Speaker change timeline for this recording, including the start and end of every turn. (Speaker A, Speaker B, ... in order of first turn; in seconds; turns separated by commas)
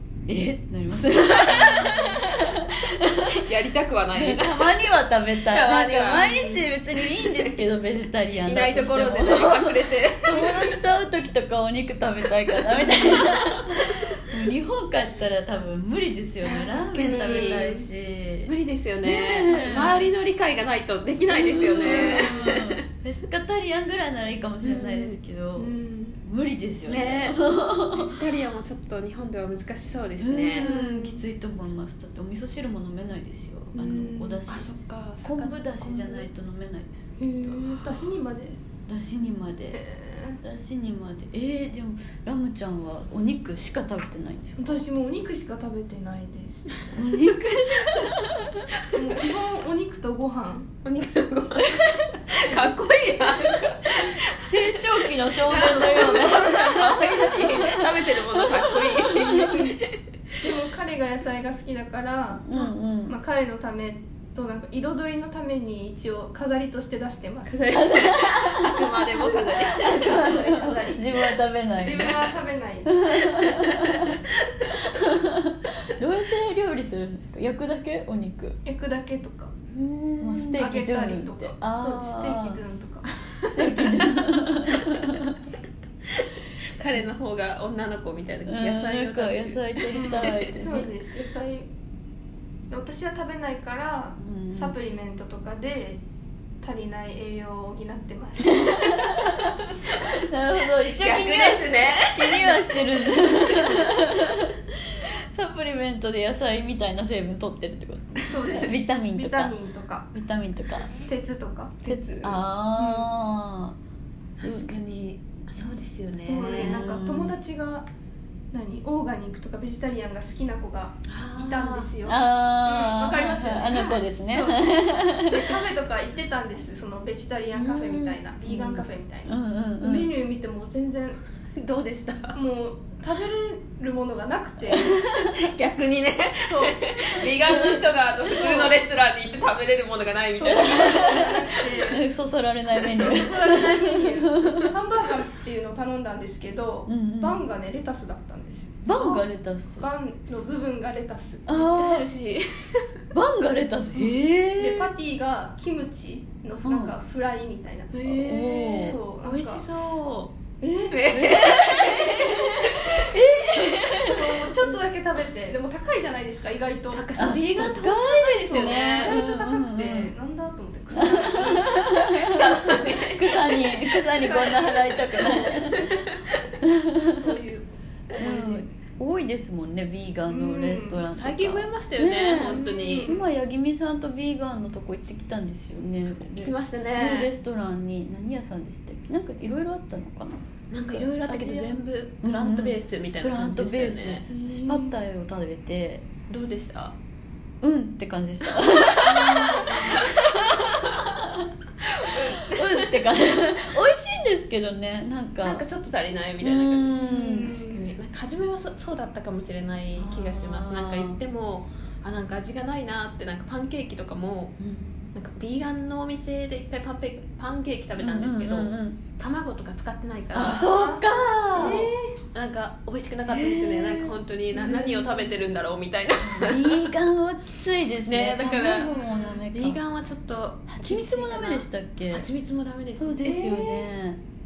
Speaker A: 0.3-3.3, Speaker B: 1.4-2.2, Speaker B: 3.2-4.8, Speaker A: 4.1-18.5, Speaker B: 5.4-7.6, Speaker B: 8.3-10.7, Speaker B: 12.5-14.0, Speaker B: 16.4-17.8, Speaker C: 16.9-17.8, Speaker B: 18.4-22.8, Speaker A: 19.0-20.1, Speaker A: 21.3-28.2, Speaker C: 21.6-22.5, Speaker B: 24.6-25.1, Speaker C: 25.6-26.2, Speaker B: 26.9-30.7, Speaker A: 30.2-34.7, Speaker C: 30.6-31.2, Speaker C: 33.7-34.4, Speaker B: 34.5-36.3, Speaker A: 35.2-37.6, Speaker C: 37.2-38.6, Speaker A: 38.9-39.8, Speaker C: 39.7-40.4, Speaker A: 40.4-44.8, Speaker C: 44.6-46.9, Speaker A: 46.9-48.6, Speaker C: 48.9-50.7, Speaker B: 50.8-54.8, Speaker A: 53.9-59.6, Speaker B: 55.4-60.4, Speaker C: 59.1-59.8, Speaker C: 60.4-67.8, Speaker A: 62.4-63.2, Speaker B: 67.5-70.7, Speaker A: 67.7-72.2, Speaker C: 69.2-71.1, Speaker C: 71.8-73.0, Speaker A: 72.8-78.6, Speaker B: 73.2-74.7, Speaker C: 78.6-79.5, Speaker B: 79.7-80.7, Speaker A: 80.2-82.6, Speaker C: 80.6-83.1, Speaker B: 83.4-84.9, Speaker A: 83.5-85.3, Speaker B: 86.2-90.6, Speaker A: 88.4-90.9, Speaker C: 89.9-91.7, Speaker C: 92.7-96.0, Speaker A: 94.2-94.8, Speaker C: 96.6-98.7, Speaker A: 98.5-104.6, Speaker B: 98.9-100.0, Speaker B: 100.8-103.9, Speaker A: 105.3-109.5, Speaker C: 108.2-110.1, Speaker A: 110.1-110.9, Speaker C: 111.0-111.8, Speaker B: 111.8-112.4, Speaker A: 111.9-113.8, Speaker C: 112.8-113.1, Speaker B: 114.4-116.8, Speaker A: 114.4-114.7, Speaker C: 116.2-117.9, Speaker A: 116.5-117.4, Speaker C: 118.5-124.6, Speaker B: 121.1-121.9, Speaker A: 122.0-125.6, Speaker B: 123.7-124.0, Speaker C: 125.1-131.2, Speaker B: 127.5-128.2, Speaker A: 128.4-130.1, Speaker B: 131.6-132.4, Speaker C: 132.3-135.0, Speaker A: 134.7-135.5, Speaker B: 135.2-141.4, Speaker C: 136.4-138.8, Speaker A: 137.2-137.9, Speaker C: 140.3-142.0, Speaker A: 140.5-144.7, Speaker C: 142.8-148.8, Speaker A: 146.9-147.4, Speaker A: 148.8-149.9, Speaker B: 148.9-149.2, Speaker C: 149.8-151.5, Speaker A: 151.4-152.1, Speaker B: 151.5-152.8, Speaker A: 153.1-154.9, Speaker C: 153.9-159.7, Speaker A: 156.6-156.9, Speaker B: 157.9-160.3, Speaker A: 158.0-159.0, Speaker C: 160.6-161.1, Speaker B: 160.9-163.0, Speaker A: 161.1-164.7, Speaker C: 164.0-167.1, Speaker B: 166.9-169.2, Speaker A: 167.2-170.1, Speaker C: 168.4-171.8, Speaker A: 170.9-176.0, Speaker B: 171.7-176.5, Speaker C: 174.2-175.4, Speaker A: 176.6-177.3, Speaker C: 177.1-178.7, Speaker A: 178.1-196.1, Speaker C: 180.3-181.1, Speaker B: 181.1-183.2, Speaker C: 182.5-183.3, Speaker B: 186.3-187.3, Speaker B: 190.7-194.2, Speaker C: 194.3-195.0, Speaker B: 196.3-197.0, Speaker A: 197.6-201.5, Speaker B: 199.0-201.0, Speaker C: 199.2-200.0, Speaker B: 201.8-203.0, Speaker A: 202.5-205.7, Speaker B: 205.4-214.6, Speaker A: 206.4-207.5, Speaker C: 207.0-207.8, Speaker A: 209.9-211.2, Speaker A: 214.6-215.0, Speaker B: 215.1-220.7, Speaker A: 218.0-219.0, Speaker A: 220.3-221.9, Speaker C: 220.4-221.0, Speaker C: 221.5-222.1, Speaker B: 221.6-226.9, Speaker A: 223.3-224.2, Speaker C: 224.5-225.4, Speaker A: 226.0-229.8, Speaker B: 228.0-229.0, Speaker C: 228.9-229.4, Speaker B: 229.5-233.2, Speaker A: 230.7-232.3, Speaker A: 233.0-234.2, Speaker C: 233.2-233.9